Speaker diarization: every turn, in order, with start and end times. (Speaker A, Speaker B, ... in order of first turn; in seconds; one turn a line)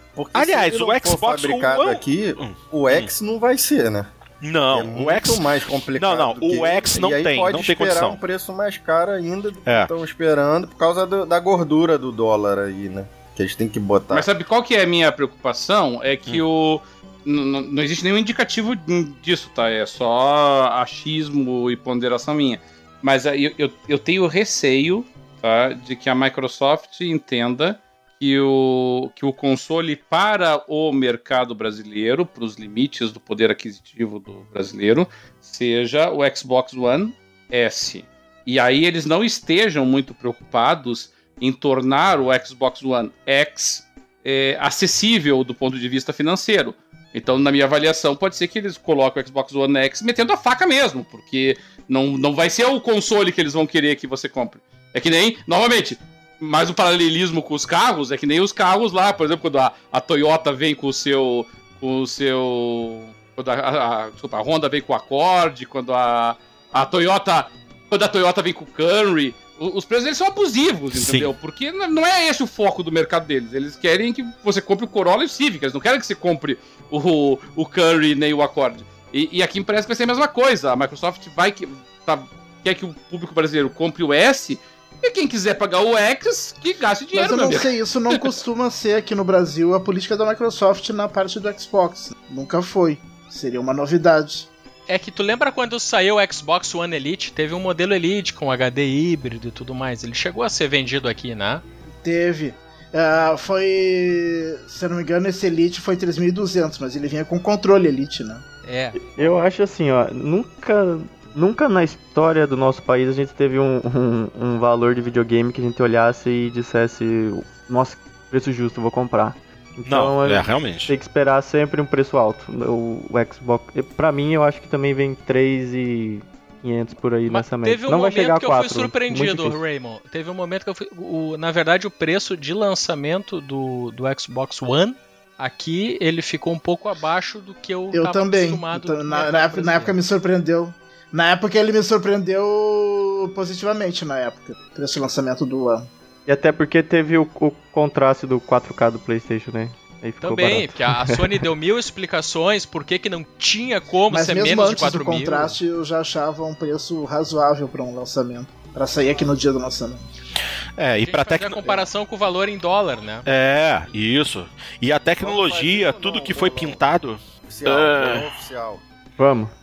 Speaker A: 0.1-4.1
Speaker B: 0.3-3.1
Speaker B: 4.4-8.2
Speaker A: 4.7-14.3
Speaker C: 14.1-88.2
Speaker B: 70.9-71.3
Speaker D: 87.1-94.5
Speaker E: 94.9-101.6
Speaker D: 102.0-108.4
Speaker E: 108.6-109.4
Speaker F: 109.1-129.6
Speaker B: 119.8-120.9
Speaker E: 127.3-140.0
Speaker D: 137.9-145.9
Speaker F: 146.3-151.3
Speaker E: 150.2-155.6
Speaker D: 154.1-160.0
Speaker B: 160.8-161.7
Speaker E: 161.0-163.2
Speaker B: 163.2-168.2
Speaker A: 165.2-166.8
Speaker A: 167.4-168.8
Speaker F: 169.2-169.5